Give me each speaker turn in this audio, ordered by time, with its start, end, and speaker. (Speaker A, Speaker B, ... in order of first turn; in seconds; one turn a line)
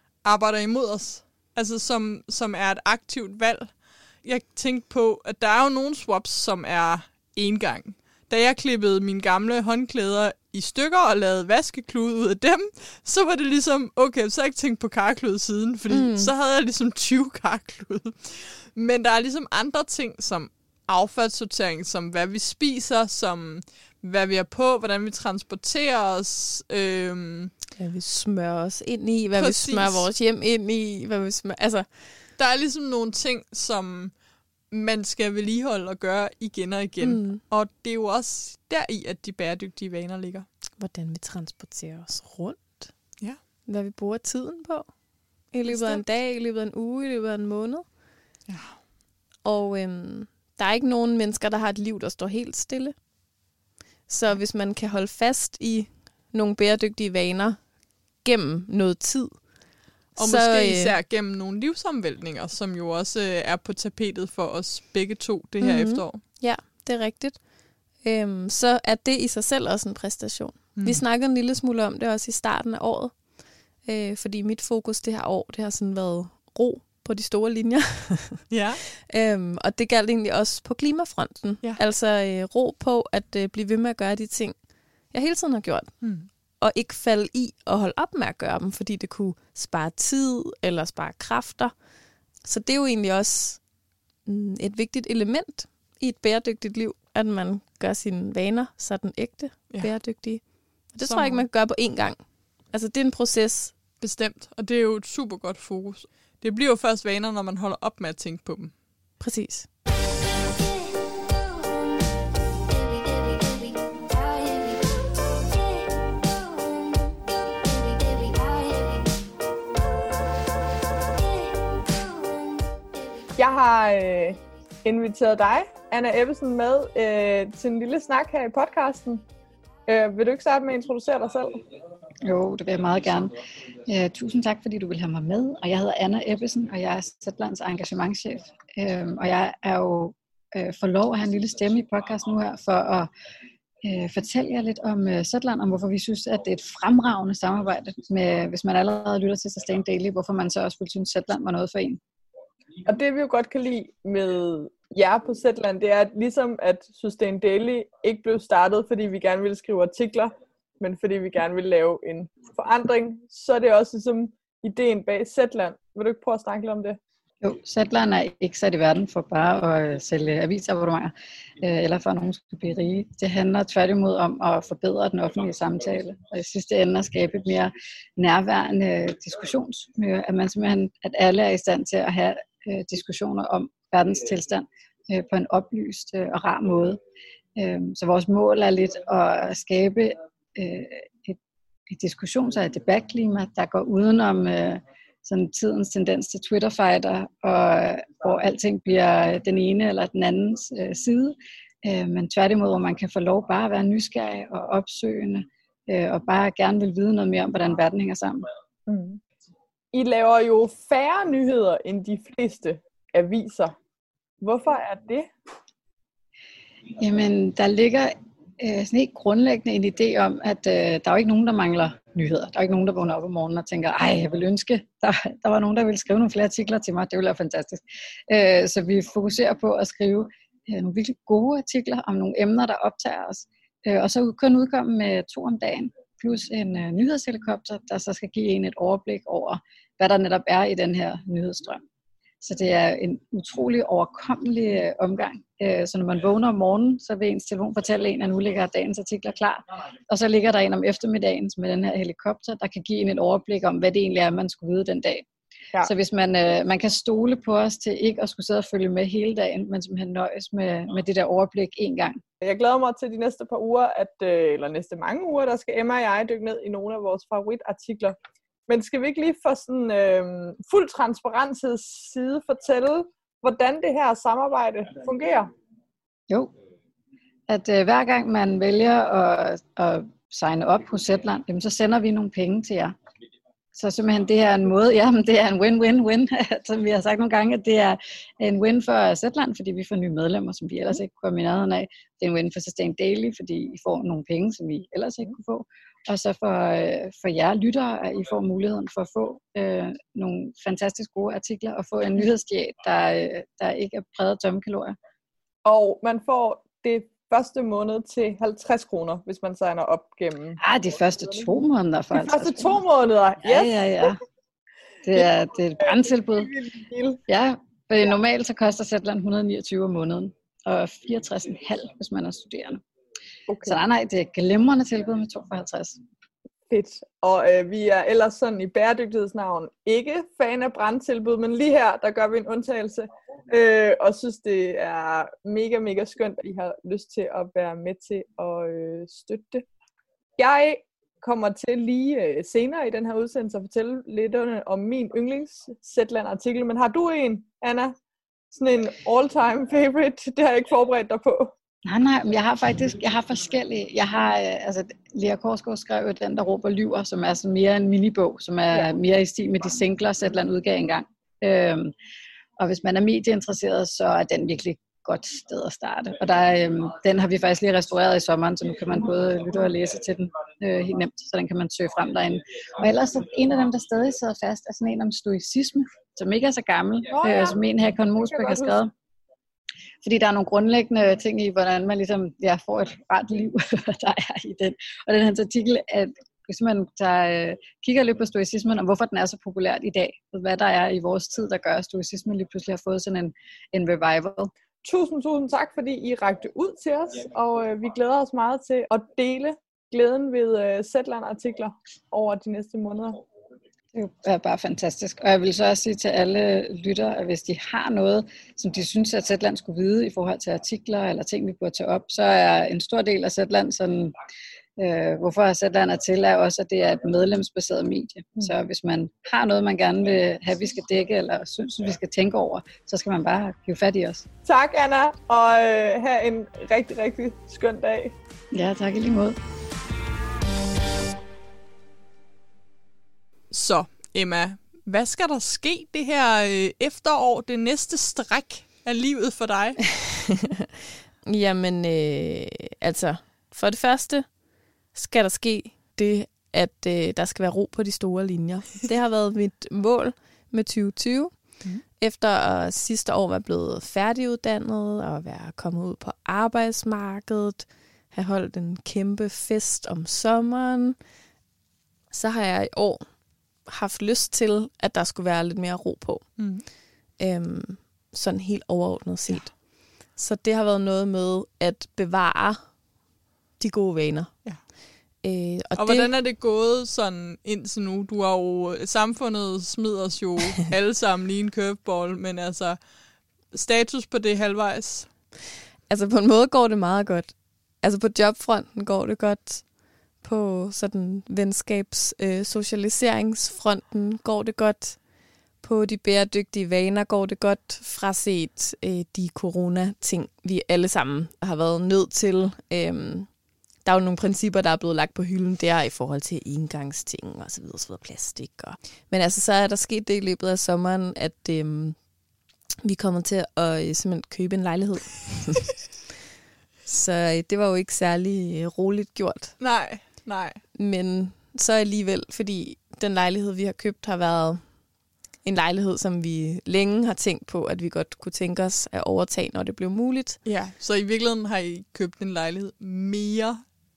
Speaker A: 0.2-27.5
Speaker B: 15.9-16.3
Speaker B: 27.8-31.9
Speaker A: 29.3-30.0
Speaker A: 32.4-34.1
Speaker A: 34.7-40.5
Speaker B: 37.0-37.4
Speaker B: 40.8-42.9
Speaker B: 43.7-44.9
Speaker B: 45.5-47.8
Speaker A: 45.7-46.0
Speaker A: 48.5-48.8
Speaker B: 49.4-52.9
Speaker B: 54.1-57.6
Speaker B: 58.2-59.4
Speaker B: 60.1-60.9
Speaker A: 60.2-66.2
Speaker B: 65.6-67.4
Speaker B: 68.0-73.2
Speaker A: 70.8-71.0
Speaker B: 73.8-78.4
Speaker A: 78.5-78.8
Speaker B: 79.0-84.5
Speaker B: 85.1-85.9
Speaker A: 86.0-86.3
Speaker B: 86.6-91.7
Speaker B: 92.4-93.6
Speaker B: 94.2-102.2
Speaker A: 101.0-101.4
Speaker B: 102.7-103.7
Speaker A: 104.0-108.7
Speaker B: 109.2-109.7
Speaker A: 123.4-129.2
Speaker A: 129.9-131.6
Speaker C: 132.2-133.3
Speaker C: 133.8-143.1
Speaker C: 143.8-152.0
Speaker A: 152.8-167.0
Speaker C: 167.4-187.0
Speaker C: 187.6-191.4
Speaker C: 191.9-208.4
Speaker A: 208.9-209.2
Speaker A: 209.9-213.7
Speaker A: 214.4-215.3
Speaker C: 217.0-241.8
Speaker C: 242.4-255.2
Speaker C: 255.8-262.2
Speaker A: 262.4-268.1
Speaker A: 268.7-275.5
Speaker C: 277.5-282.9
Speaker C: 283.8-304.9
Speaker A: 305.6-310.6
Speaker C: 310.6-312.8
Speaker A: 312.1-314.2
Speaker C: 313.4-314.2
Speaker C: 315.0-316.5
Speaker A: 316.4-317.2
Speaker C: 317.3-322.8
Speaker A: 323.5-323.8
Speaker C: 323.6-326.0
Speaker A: 326.7-339.6
Speaker A: 340.4-347.9
Speaker A: 348.5-351.5
Speaker C: 351.9-361.9
Speaker C: 362.6-378.9
Speaker A: 377.1-377.6
Speaker A: 378.2-378.8
Speaker C: 380.0-394.5
Speaker A: 394.8-403.2
Speaker C: 403.9-414.1
Speaker C: 414.8-424.2
Speaker A: 424.4-428.1
Speaker C: 428.5-429.4
Speaker A: 433.5-439.9
Speaker B: 441.2-444.3
Speaker B: 444.9-451.4
Speaker B: 452.0-461.0
Speaker B: 462.1-463.0
Speaker B: 463.6-466.2
Speaker A: 466.4-466.6
Speaker B: 467.2-472.6
Speaker B: 473.6-474.3
Speaker B: 475.2-476.1
Speaker A: 475.8-482.8
Speaker A: 483.5-485.1
Speaker B: 485.9-489.7
Speaker B: 490.2-495.0
Speaker B: 495.6-503.3
Speaker B: 503.8-512.0
Speaker B: 512.8-515.7
Speaker B: 516.9-519.5
Speaker A: 519.6-520.6
Speaker B: 520.8-524.6
Speaker B: 525.4-530.4
Speaker A: 530.4-533.6